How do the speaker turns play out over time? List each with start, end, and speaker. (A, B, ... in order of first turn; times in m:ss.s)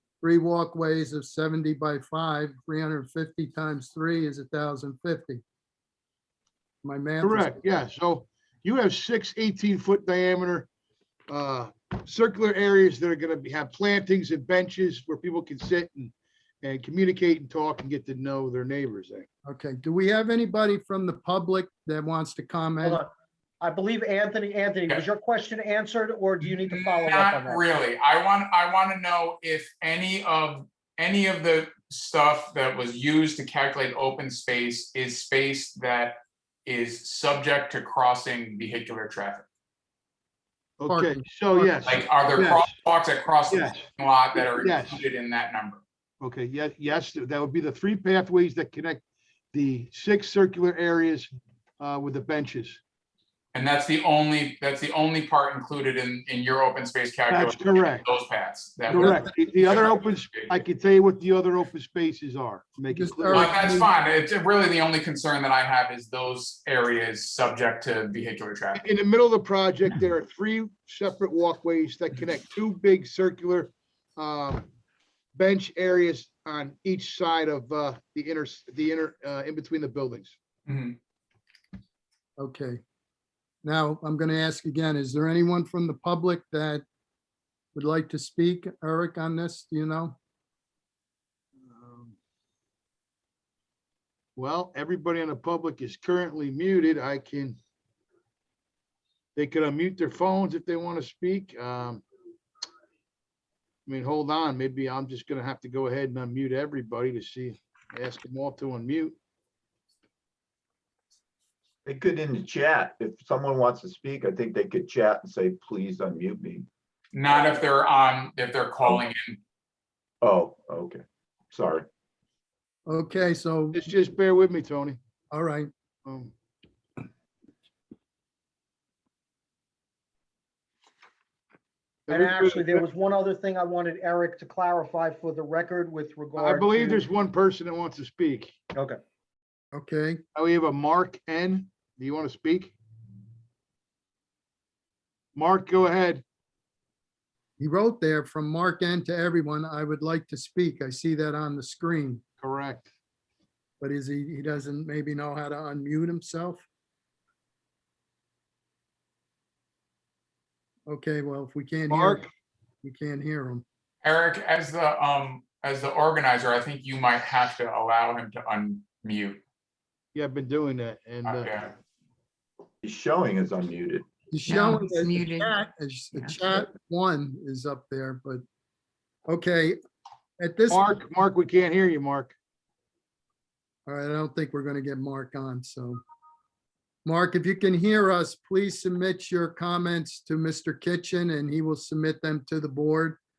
0:00.2-0:05.4 A
0:06.8-0:07.6 A
0:07.2-0:10.7 B
0:11.3-0:19.3 B
0:19.4-0:23.0 A
0:22.8-0:23.1 C
0:23.6-0:27.6 C
0:26.4-0:39.5 D
0:40.8-0:42.7 B
0:40.9-0:41.9 A
0:41.9-0:45.8 D
0:43.5-0:45.0 B
0:46.2-0:52.8 B
0:53.5-1:00.6 D
0:57.3-0:58.1 B
0:58.9-1:03.6 B
0:59.0-0:59.3 A
1:02.9-1:03.9 A
1:03.3-1:08.8 D
1:08.8-1:14.7 B
1:15.4-1:20.4 B
1:20.7-1:21.0 D
1:22.4-1:22.8 A
1:23.6-1:26.8 A
1:27.7-1:30.2 A
1:31.6-1:32.2 B
1:34.4-1:37.6 B
1:39.4-1:42.0 B
1:43.9-1:49.2 B
1:51.8-1:56.7 E
1:57.1-1:59.4 D
2:00.2-2:01.9 E
2:02.9-2:03.9 A
2:03.7-2:05.0 B
2:05.3-2:05.7 A
2:06.0-2:06.3 B
2:12.1-2:12.8 B
2:12.1-2:17.0 C
2:16.4-2:18.6 B
2:19.7-2:20.2 A
2:20.4-2:22.8 B
2:25.4-2:26.2 B
2:27.6-2:32.2 A
2:32.4-2:32.9 B
2:33.8-2:36.6 A
2:40.9-2:42.3 A
2:41.9-2:42.3 B
2:42.8-2:43.6 A
2:44.0-2:49.4 D
2:50.1-2:51.5 B
2:51.2-2:51.7 D
2:52.8-2:55.5 E
2:54.3-2:58.4 A
2:59.3-2:59.8 A
3:00.4-3:01.0 A
3:00.7-3:02.3 B
3:03.9-3:06.0 A
3:07.0-3:13.2 A